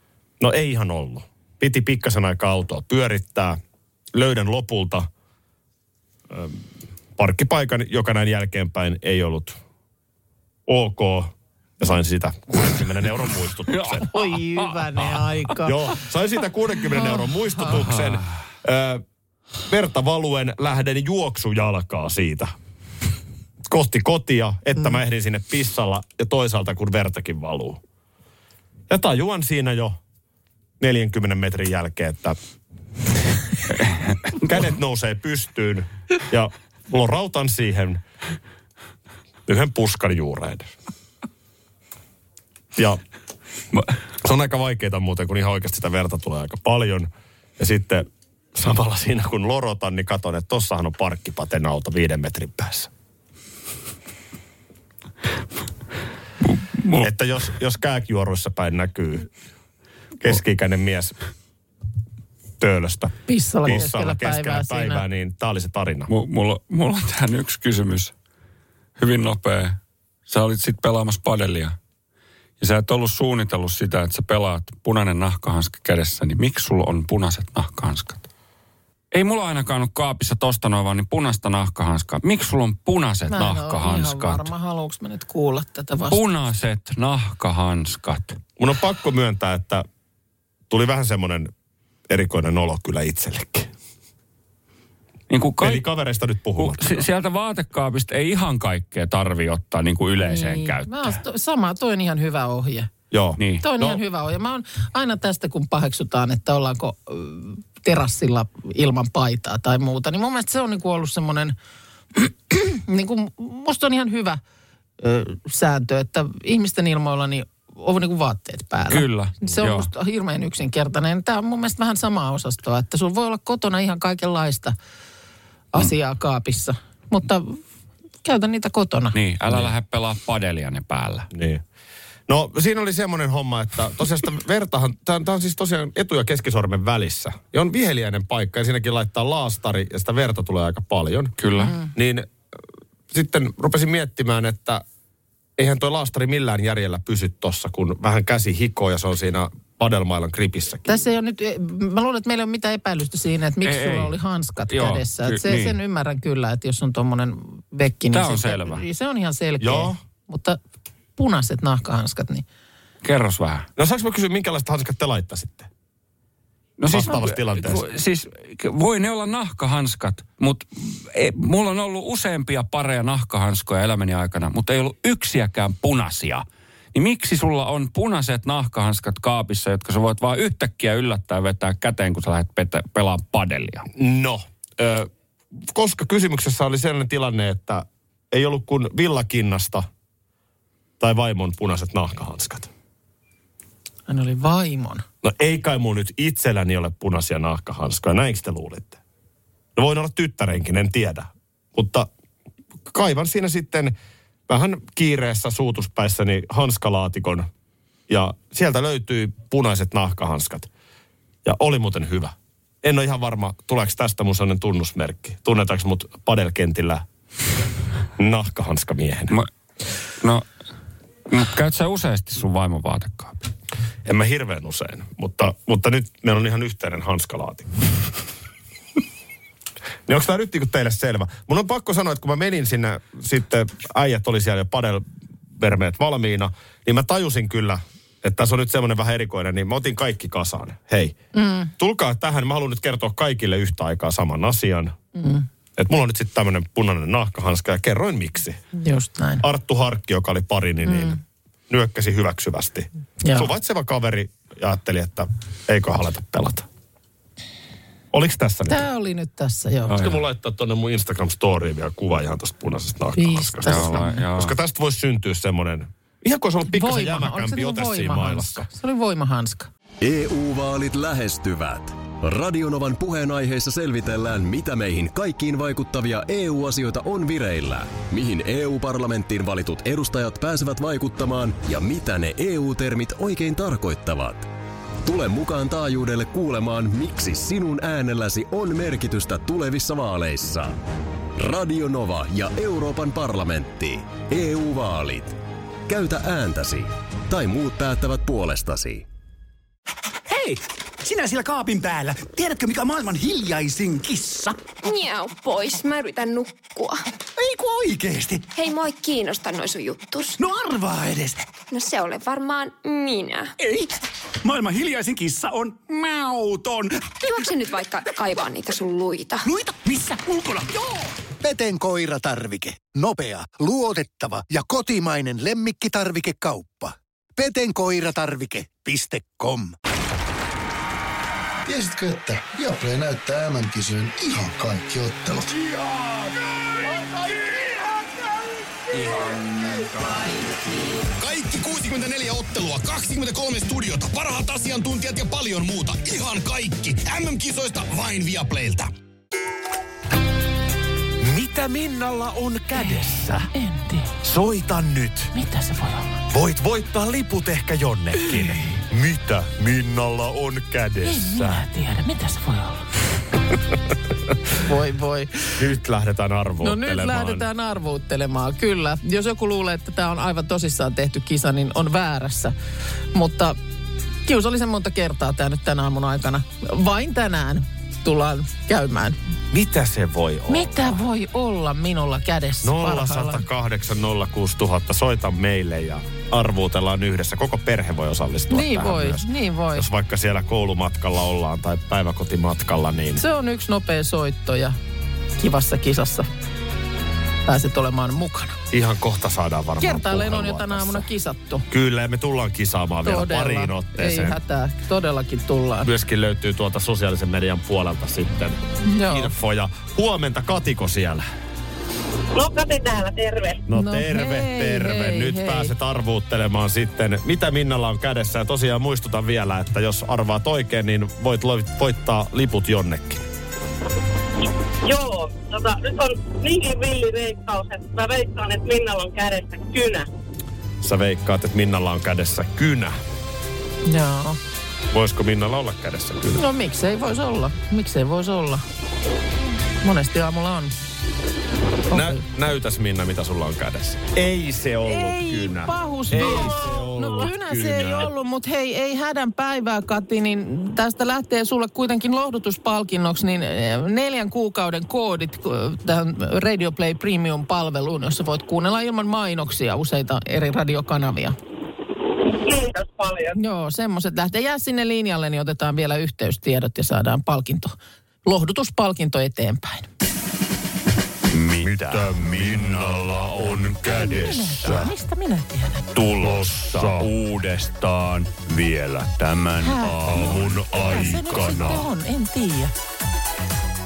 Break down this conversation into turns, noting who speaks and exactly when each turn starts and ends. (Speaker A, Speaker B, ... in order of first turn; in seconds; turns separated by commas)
Speaker A: 0.4-3.6, Speaker A: 4.1-5.1, Speaker A: 6.3-6.6, Speaker A: 7.2-9.6, Speaker A: 10.7-14.1, Speaker B: 13.7-15.2, Speaker C: 14.1-15.9, Speaker A: 15.6-19.0, Speaker C: 16.9-17.9, Speaker A: 19.7-22.5, Speaker A: 23.7-27.8, Speaker A: 28.9-30.0, Speaker A: 30.8-32.4, Speaker A: 34.4-38.0, Speaker A: 39.5-40.7, Speaker A: 42.8-43.0, Speaker A: 44.2-52.9, Speaker B: 56.4-57.1, Speaker A: 57.0-59.3, Speaker A: 60.2-61.1, Speaker A: 62.6-66.1, Speaker C: 63.3-65.0, Speaker B: 66.1-68.1, Speaker B: 69.0-71.8, Speaker B: 72.6-78.3, Speaker B: 79.1-84.5, Speaker C: 83.3-86.2, Speaker B: 86.1-88.4, Speaker A: 88.6-89.9, Speaker A: 90.7-91.5, Speaker A: 92.1-93.7, Speaker B: 95.3-95.8, Speaker A: 95.6-97.1, Speaker B: 96.6-101.2, Speaker C: 100.2-102.9, Speaker A: 103.1-104.0, Speaker B: 103.4-103.7, Speaker C: 103.6-111.5, Speaker C: 112.1-114.4, Speaker C: 115.0-124.8, Speaker B: 118.9-119.9, Speaker C: 125.7-127.6, Speaker C: 128.2-129.2, Speaker B: 129.1-131.3, Speaker A: 131.3-131.6, Speaker A: 132.3-141.3, Speaker B: 141.4-141.8, Speaker C: 141.6-141.9, Speaker A: 141.9-142.3, Speaker A: 143.1-144.8, Speaker A: 145.6-151.1, Speaker C: 150.9-160.6, Speaker B: 153.6-154.2, Speaker B: 154.7-155.8, Speaker B: 158.1-158.8, Speaker A: 159.6-160.0, Speaker C: 161.2-162.4, Speaker B: 163.0-163.7, Speaker A: 163.8-165.7, Speaker B: 166.8-183.9, Speaker A: 166.9-167.8, Speaker A: 184.0-189.9, Speaker A: 191.0-192.7, Speaker C: 194.1-195.1, Speaker A: 195.2-199.0, Speaker A: 199.8-202.1, Speaker A: 202.9-203.9, Speaker A: 204.5-207.5, Speaker A: 208.1-210.7, Speaker A: 211.4-217.1, Speaker A: 218.2-219.4, Speaker B: 220.2-220.5, Speaker B: 221.3-223.5, Speaker A: 224.1-227.7, Speaker A: 230.1-241.2, Speaker C: 241.3-241.7, Speaker A: 241.8-244.9, Speaker C: 245.2-245.5, Speaker A: 245.8-248.6, Speaker C: 248.8-249.4, Speaker A: 249.4-251.2, Speaker C: 250.9-251.2, Speaker A: 251.7-256.7, Speaker C: 253.2-253.5, Speaker A: 258.1-258.9, Speaker C: 258.7-260.0, Speaker B: 259.9-260.2, Speaker A: 259.9-268.7, Speaker C: 263.2-264.2, Speaker B: 263.6-264.6, Speaker C: 266.7-269.7, Speaker D: 270.0-284.5, Speaker D: 285.0-290.8, Speaker D: 291.4-295.4, Speaker D: 295.9-299.1, Speaker E: 300.3-304.6, Speaker F: 304.8-307.0, Speaker E: 307.4-308.5, Speaker F: 308.5-310.4, Speaker E: 310.4-311.4, Speaker F: 311.7-313.5, Speaker E: 313.6-313.9, Speaker E: 314.4-317.1, Speaker F: 317.3-319.5, Speaker E: 319.4-321.1, Speaker G: 321.4-329.8, Speaker H: 331.6-335.6, Speaker I: 341.2-348.9, Speaker A: 351.2-353.5, Speaker C: 353.6-354.1, Speaker A: 354.2-355.3, Speaker C: 355.4-356.1, Speaker A: 356.3-361.6, Speaker C: 361.1-362.8, Speaker C: 364.6-365.5, Speaker A: 365.6-367.5, Speaker C: 366.6-372.6, Speaker C: 373.1-373.6, Speaker C: 374.3-379.2, Speaker A: 379.5-381.0, Speaker C: 380.5-383.4, Speaker A: 382.6-393.2, Speaker C: 388.5-389.9, Speaker C: 393.2-394.8, Speaker C: 395.4-396.3, Speaker C: 397.4-398.6, Speaker A: 398.7-401.1, Speaker C: 399.8-401.6, Speaker A: 401.7-404.4, Speaker C: 403.0-405.9, Speaker A: 405.8-411.2, Speaker C: 408.9-409.3, Speaker J: 412.4-413.6, Speaker A: 413.7-423.3, Speaker C: 413.7-415.7, Speaker J: 424.8-430.1, Speaker A: 430.8-432.9, Speaker C: 433.9-434.4, Speaker A: 434.9-436.5, Speaker C: 436.3-438.6, Speaker C: 439.8-440.8, Speaker C: 441.9-442.2, Speaker A: 441.9-448.1, Speaker C: 444.9-461.4, Speaker J: 462.3-463.4, Speaker C: 463.4-469.9, Speaker B: 471.4-472.9, Speaker K: 471.6-474.8, Speaker C: 474.1-475.8, Speaker K: 476.0-481.6, Speaker B: 476.2-477.0, Speaker C: 479.6-482.7, Speaker A: 480.2-481.8